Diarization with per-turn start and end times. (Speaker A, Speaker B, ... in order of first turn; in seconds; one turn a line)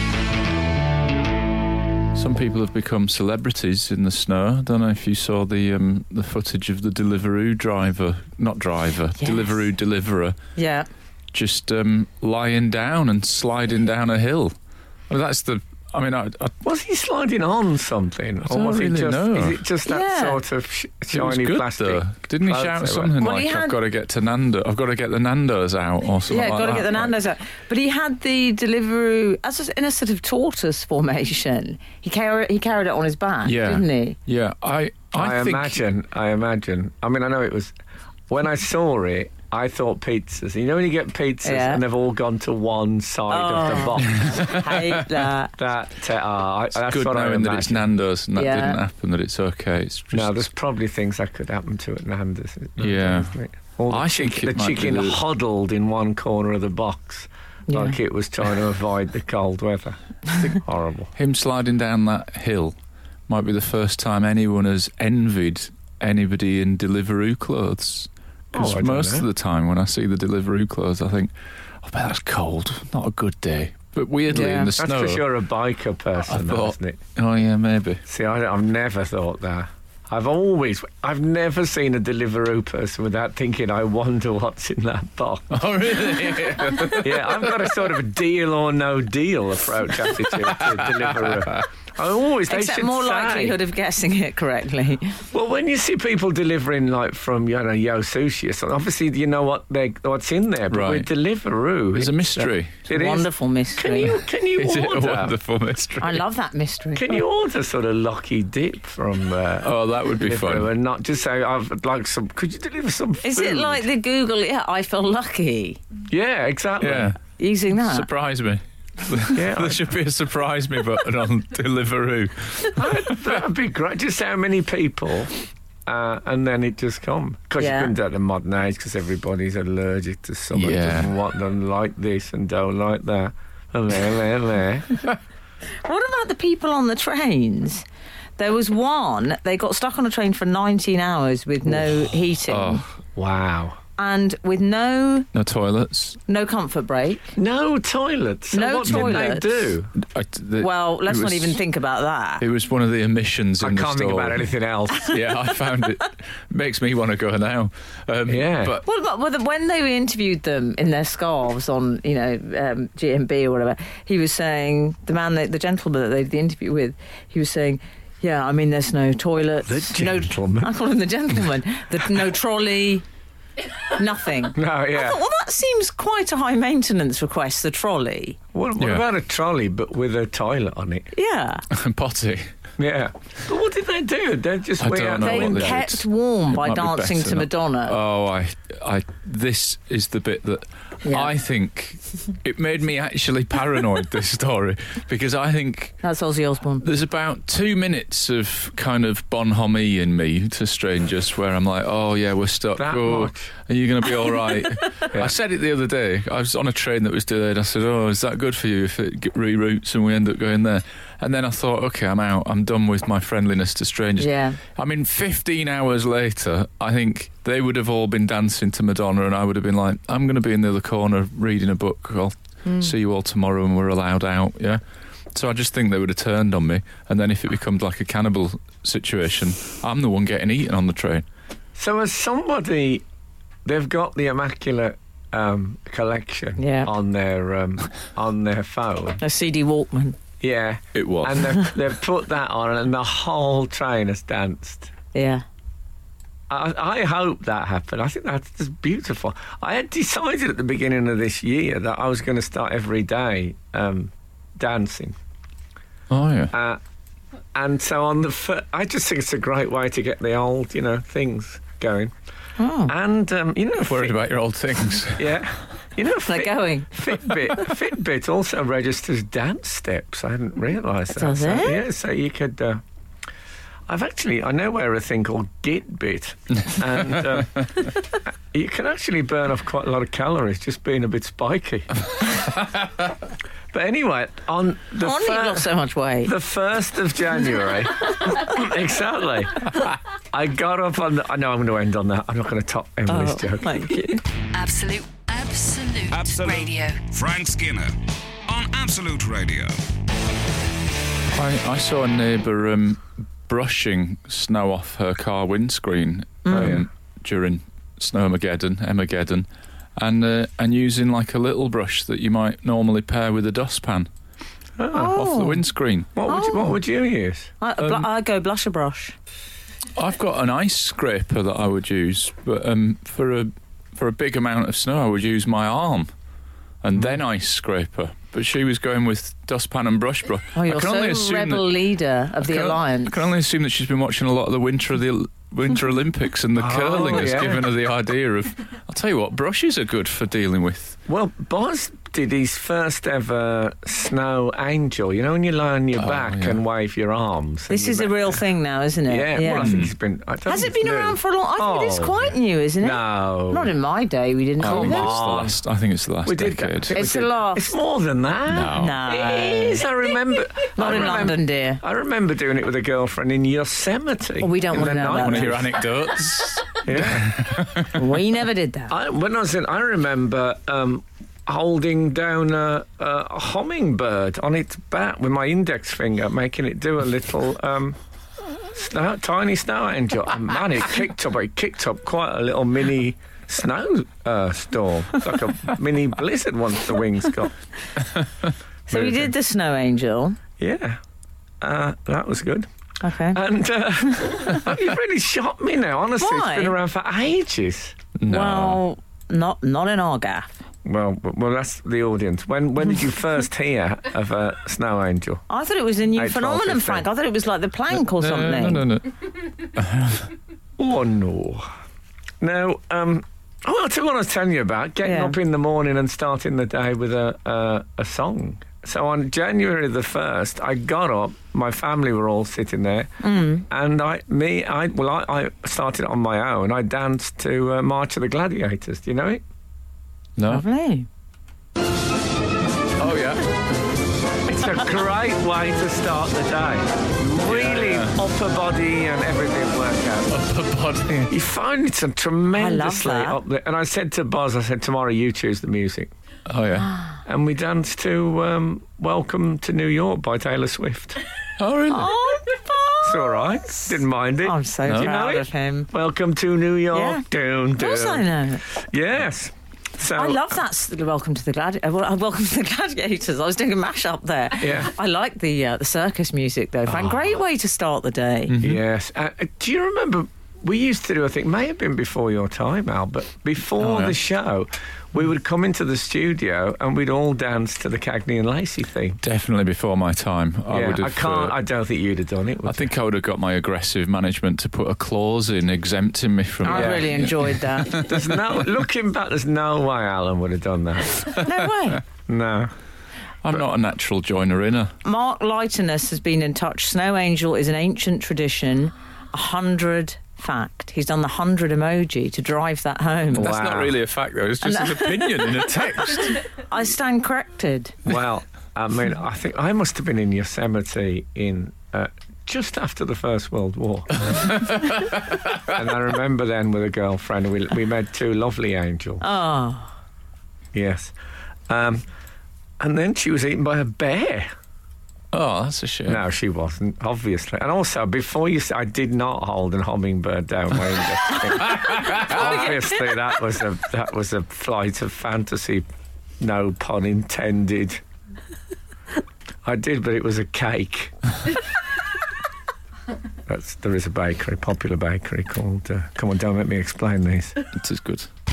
Speaker A: 2.1-10.4
Speaker B: 9.2-9.6
Speaker B: 10.6-10.9
Speaker A: 11.3-14.5
Speaker A: 15.1-16.5
Speaker C: 16.6-23.1
Speaker A: 18.4-19.6
Speaker B: 19.9-20.4
Speaker A: 21.1-27.1
Speaker B: 23.2-23.8
Speaker B: 26.3-34.2
Speaker A: 33.4-35.8
Speaker C: 35.1-37.8
Speaker C: 38.3-44.9
Speaker B: 41.4-41.8
Speaker B: 43.3-45.5
Speaker A: 44.0-44.9
Speaker C: 45.6-47.9
Speaker A: 46.7-50.5
Speaker B: 48.3-48.8
Speaker C: 50.1-61.1
Speaker A: 52.8-53.3
Speaker A: 53.9-55.2
Speaker B: 57.7-58.0
Speaker A: 61.1-62.8
Speaker A: 63.3-75.2
Speaker C: 68.5-69.3
Speaker B: 74.3-74.7
Speaker C: 74.8-77.0
Speaker A: 76.3-78.0
Speaker C: 78.0-85.6
Speaker A: 85.5-87.7
Speaker C: 86.9-93.6
Speaker A: 90.4-91.6
Speaker B: 92.5-95.2
Speaker C: 95.3-105.3
Speaker A: 100.7-101.1
Speaker A: 101.9-102.8
Speaker B: 102.9-104.2
Speaker A: 104.5-106.2
Speaker B: 106.0-107.2
Speaker C: 106.9-113.8
Speaker A: 109.6-110.7
Speaker B: 113.2-115.8
Speaker C: 116.1-117.2
Speaker A: 116.8-117.2
Speaker B: 117.4-118.1
Speaker A: 117.7-123.2
Speaker C: 119.3-119.9
Speaker C: 122.7-125.3
Speaker C: 125.8-135.0
Speaker B: 127.6-127.9
Speaker A: 130.5-131.1
Speaker B: 135.8-137.8
Speaker B: 138.4-142.8
Speaker A: 142.5-142.8
Speaker C: 143.2-143.8
Speaker B: 144.0-145.3
Speaker A: 145.3-146.2
Speaker B: 146.3-147.3
Speaker C: 147.3-149.9
Speaker B: 148.5-149.7
Speaker A: 148.9-149.3
Speaker A: 150.0-151.6
Speaker B: 150.6-152.4
Speaker A: 152.4-154.5
Speaker C: 153.6-155.2
Speaker A: 155.0-158.8
Speaker C: 158.3-158.8
Speaker B: 158.8-173.0
Speaker C: 169.6-170.7
Speaker B: 173.9-178.4
Speaker C: 174.5-175.2
Speaker C: 178.5-181.1
Speaker A: 178.8-179.0
Speaker B: 181.1-181.6
Speaker A: 181.7-182.5
Speaker C: 182.8-185.8
Speaker A: 184.8-196.0
Speaker B: 185.2-187.9
Speaker B: 191.0-191.3
Speaker B: 196.0-196.8
Speaker A: 196.8-224.8
Speaker C: 202.8-203.5
Speaker B: 204.7-205.0
Speaker B: 214.2-214.6
Speaker B: 222.6-222.9
Speaker A: 225.3-231.2
Speaker C: 231.8-233.0
Speaker C: 233.6-239.2
Speaker B: 236.6-236.9
Speaker B: 239.2-240.2
Speaker C: 240.4-244.9
Speaker A: 240.9-241.6
Speaker B: 245.1-245.4
Speaker C: 246.5-255.2
Speaker A: 256.1-256.5
Speaker C: 256.5-256.8
Speaker C: 257.5-262.1
Speaker B: 262.6-262.9
Speaker C: 262.9-264.2
Speaker A: 263.9-265.4
Speaker C: 265.1-272.8
Speaker B: 266.2-267.1
Speaker B: 271.1-271.8
Speaker C: 273.9-277.9
Speaker C: 278.5-281.9
Speaker C: 283.7-285.7
Speaker B: 285.0-286.3
Speaker C: 286.2-293.8
Speaker B: 293.1-294.2
Speaker D: 294.5-297.0
Speaker E: 296.1-297.9
Speaker E: 298.5-299.8
Speaker A: 301.3-309.4
Speaker B: 306.4-306.8
Speaker C: 306.5-306.8
Speaker A: 310.0-314.1
Speaker C: 314.8-315.2
Speaker B: 314.9-315.6
Speaker A: 315.1-316.1
Speaker C: 316.1-317.5
Speaker B: 316.2-316.8
Speaker B: 317.6-319.1
Speaker A: 317.8-318.1
Speaker A: 319.9-326.1
Speaker A: 326.8-331.7
Speaker B: 330.5-333.3
Speaker A: 332.4-341.0
Speaker C: 336.5-337.7
Speaker C: 341.1-348.4
Speaker A: 345.9-346.6
Speaker B: 347.7-349.8
Speaker C: 349.1-353.7
Speaker A: 349.5-349.9
Speaker B: 350.4-355.2
Speaker C: 354.6-355.6
Speaker A: 354.6-356.9
Speaker C: 356.2-365.8
Speaker B: 356.9-357.7
Speaker A: 358.5-359.0
Speaker B: 358.7-359.9
Speaker B: 360.7-361.8
Speaker B: 364.4-365.5
Speaker A: 364.8-368.0
Speaker C: 366.8-367.6
Speaker B: 367.9-368.9
Speaker C: 368.9-378.0
Speaker C: 378.7-387.5
Speaker B: 388.9-390.4
Speaker C: 388.9-389.3
Speaker C: 390.6-391.0
Speaker C: 391.6-392.7
Speaker B: 393.0-393.4
Speaker C: 393.3-398.0
Speaker B: 396.2-396.7
Speaker A: 398.2-398.8
Speaker B: 398.2-400.6
Speaker C: 400.8-405.4
Speaker B: 405.5-408.9
Speaker C: 406.1-407.1
Speaker A: 407.9-410.3
Speaker C: 410.8-411.7
Speaker C: 412.4-429.4
Speaker B: 415.0-415.4
Speaker B: 423.2-423.6
Speaker A: 430.4-430.6
Speaker B: 430.5-431.1
Speaker A: 433.0-433.5
Speaker C: 434.4-440.3
Speaker A: 437.4-438.2
Speaker A: 440.3-441.3
Speaker C: 441.3-446.1
Speaker B: 442.5-443.4
Speaker A: 446.5-447.0
Speaker C: 447.2-451.2
Speaker A: 451.6-452.1
Speaker B: 451.9-455.9
Speaker C: 453.0-460.4
Speaker B: 456.9-457.2
Speaker B: 457.8-458.6
Speaker B: 460.0-468.6
Speaker C: 464.6-464.9
Speaker A: 468.5-468.8
Speaker C: 468.6-479.2
Speaker A: 473.8-474.1
Speaker A: 479.2-481.6
Speaker C: 480.7-482.9
Speaker A: 482.6-488.5
Speaker B: 486.6-488.1
Speaker C: 486.7-487.2
Speaker C: 487.9-491.4
Speaker B: 491.4-492.0
Speaker C: 492.3-492.7
Speaker A: 493.4-494.9
Speaker B: 495.0-503.6
Speaker A: 503.3-506.4
Speaker C: 503.3-503.9
Speaker B: 504.6-507.9
Speaker C: 508.0-514.5
Speaker A: 514.3-515.6
Speaker C: 515.6-519.2
Speaker B: 519.2-519.9
Speaker C: 520.7-521.1
Speaker C: 521.7-522.0
Speaker C: 522.8-524.5
Speaker A: 525.3-526.2
Speaker C: 526.0-535.9
Speaker B: 531.6-532.9
Speaker A: 531.8-532.3
Speaker C: 536.4-538.0
Speaker C: 539.6-541.1
Speaker C: 543.5-547.5
Speaker A: 547.7-548.3